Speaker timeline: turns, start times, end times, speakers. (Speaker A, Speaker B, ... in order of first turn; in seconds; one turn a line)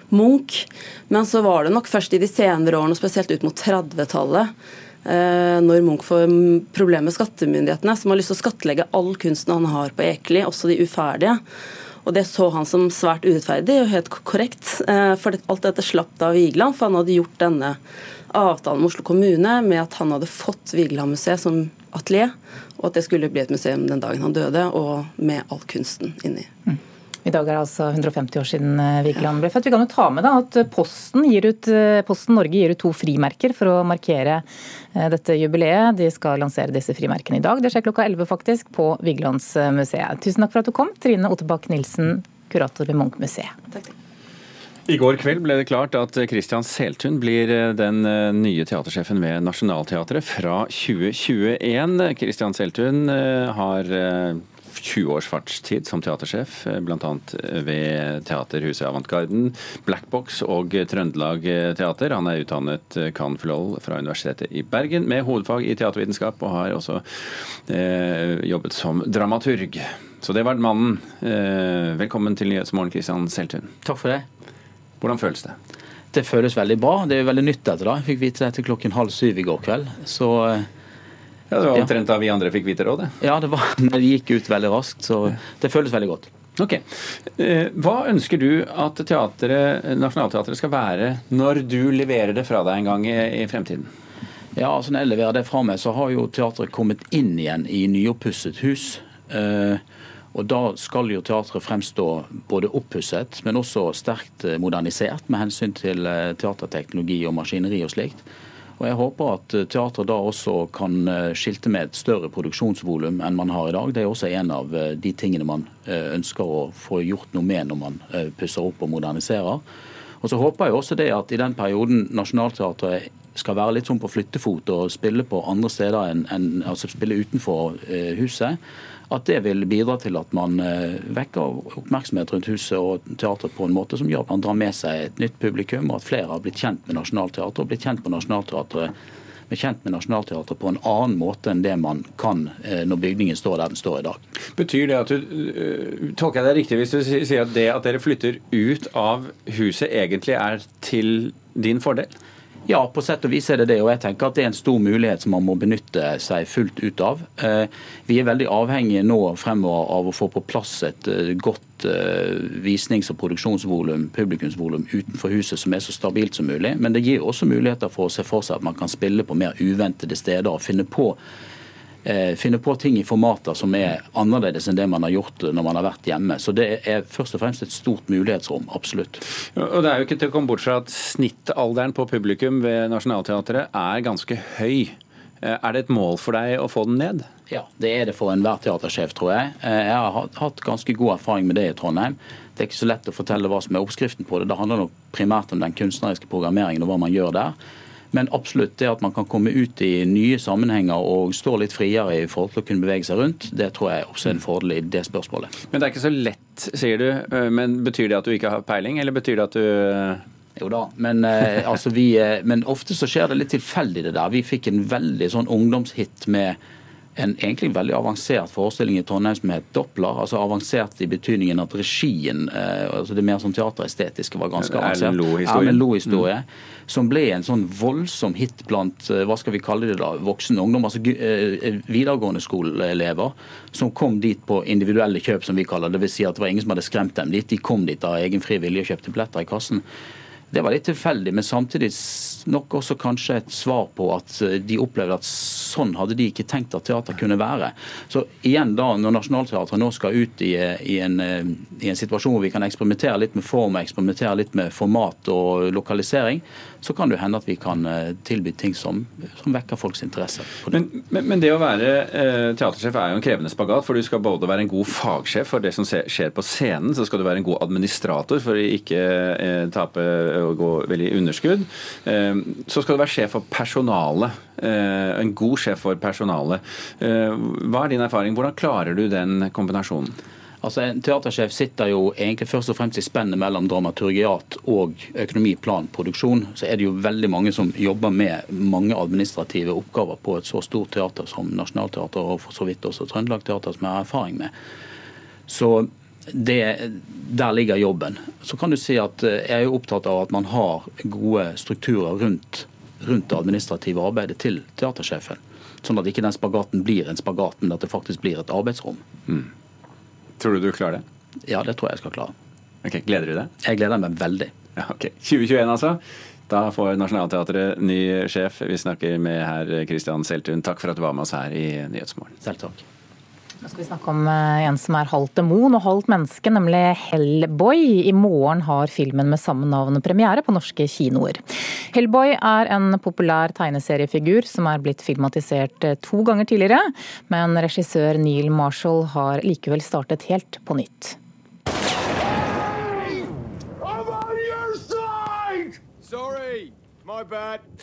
Speaker A: 0.2-4.5
Speaker A: 5.2-11.4
Speaker A: 12.1-17.7
Speaker A: 18.4-22.3
Speaker A: 22.9-26.4
Speaker B: 26.7-34.4
Speaker B: 34.9-43.5
Speaker C: 44.9-73.7
Speaker D: 73.8-74.2
Speaker C: 75.0-75.5
Speaker D: 76.1-80.7
Speaker C: 81.5-83.1
Speaker D: 83.2-86.3
Speaker C: 86.6-93.9
Speaker D: 94.5-99.8
Speaker D: 100.3-108.2
Speaker D: 108.8-119.6
Speaker D: 120.2-128.6
Speaker D: 129.1-138.9
Speaker D: 139.5-144.2
Speaker C: 144.5-152.1
Speaker D: 152.7-171.2
Speaker D: 172.0-179.2
Speaker C: 179.5-187.2
Speaker D: 187.5-197.5
Speaker D: 198.1-205.5
Speaker C: 205.7-210.2
Speaker D: 210.6-216.6
Speaker D: 217.2-239.8
Speaker C: 224.6-226.2
Speaker D: 240.5-260.8
Speaker C: 260.7-280.1
Speaker D: 280.6-294.5
Speaker D: 295.5-309.0
Speaker C: 310.4-311.0
Speaker D: 311.4-312.3
Speaker C: 312.8-313.5
Speaker D: 313.6-314.5
Speaker C: 314.8-322.3
Speaker D: 322.4-322.8
Speaker B: 323.6-331.4
Speaker B: 331.9-341.2
Speaker E: 343.9-344.3
Speaker E: 346.0-347.6